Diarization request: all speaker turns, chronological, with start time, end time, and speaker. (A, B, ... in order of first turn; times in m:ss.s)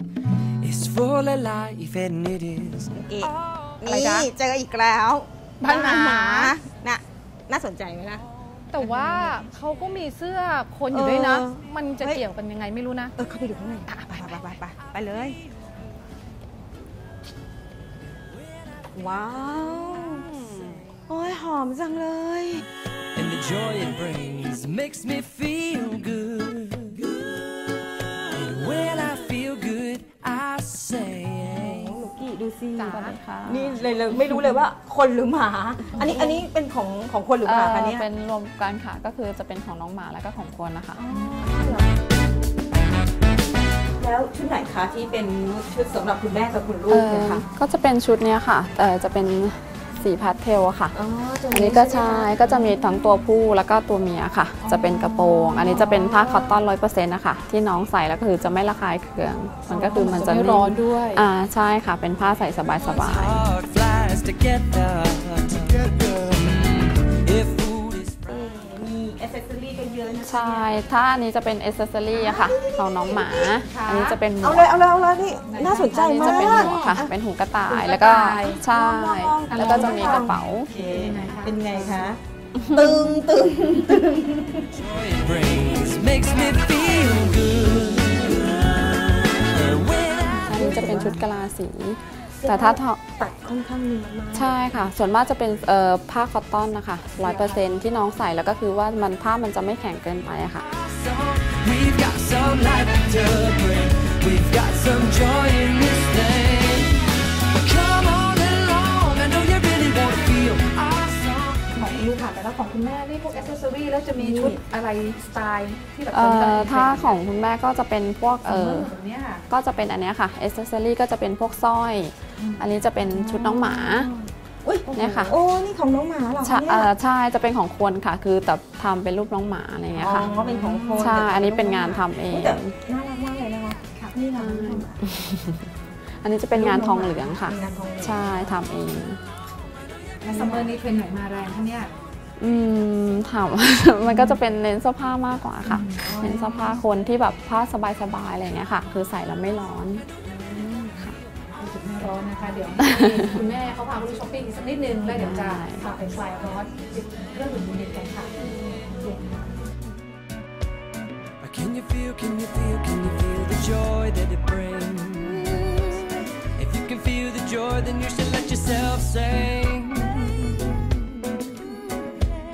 0:00.6-0:03.3 A
0:02.9-0:08.3 B
0:03.9-0:04.3 C
0:05.6-0:06.6 C
0:08.7-0:13.1 C
0:08.8-0:09.3 B
0:10.9-0:12.2 B
0:13.2-0:15.4 B
0:13.9-0:14.6 C
0:18.9-0:22.7 B
0:23.2-0:27.3 A
0:28.3-0:32.0 A
0:31.6-0:38.1 B
0:32.8-0:33.2 C
0:32.8-0:33.8 D
0:37.4-0:41.0 D
0:41.0-0:41.9 B
0:44.0-0:47.4 B
0:46.9-0:51.0 D
0:50.9-0:52.6 B
0:51.5-1:03.5 D
0:54.6-0:56.6 B
0:59.7-1:01.2 C
1:02.7-1:08.4 A
1:08.3-1:10.8 B
1:10.2-1:14.7 D
1:12.1-1:13.5 B
1:13.7-1:14.2 C
1:14.4-1:17.1 B
1:15.5-1:17.0 C
1:15.6-1:20.7 D
1:17.7-1:18.6 C
1:18.4-1:24.7 B
1:19.5-1:22.1 C
1:24.8-1:30.7 A
1:30.5-1:33.0 D
1:30.6-1:31.2 B
1:32.4-1:34.6 B
1:34.3-1:40.6 D
1:37.2-1:37.6 C
1:40.6-1:51.8 A
1:51.7-1:57.2 C
1:54.2-1:54.6 B
1:56.1-1:58.9 D
1:58.4-1:59.4 C
1:59.5-2:04.1 D
2:03.1-2:06.9 B
2:04.9-2:05.4 D
2:06.4-2:12.8 D
2:09.9-2:15.0 B
2:10.5-2:11.0 C
2:14.4-2:15.7 D
2:16.2-2:19.2 D
2:16.5-2:18.5 B
2:20.2-2:21.9 C
2:20.3-2:20.6 B
2:22.4-2:31.2 D
2:25.7-2:26.6 C
2:26.1-2:26.3 B
2:31.6-2:38.3 C
2:32.9-2:33.2 D
2:35.1-2:35.8 D
2:38.9-2:39.5 C
2:41.4-2:45.9 A
2:46.6-2:50.8 A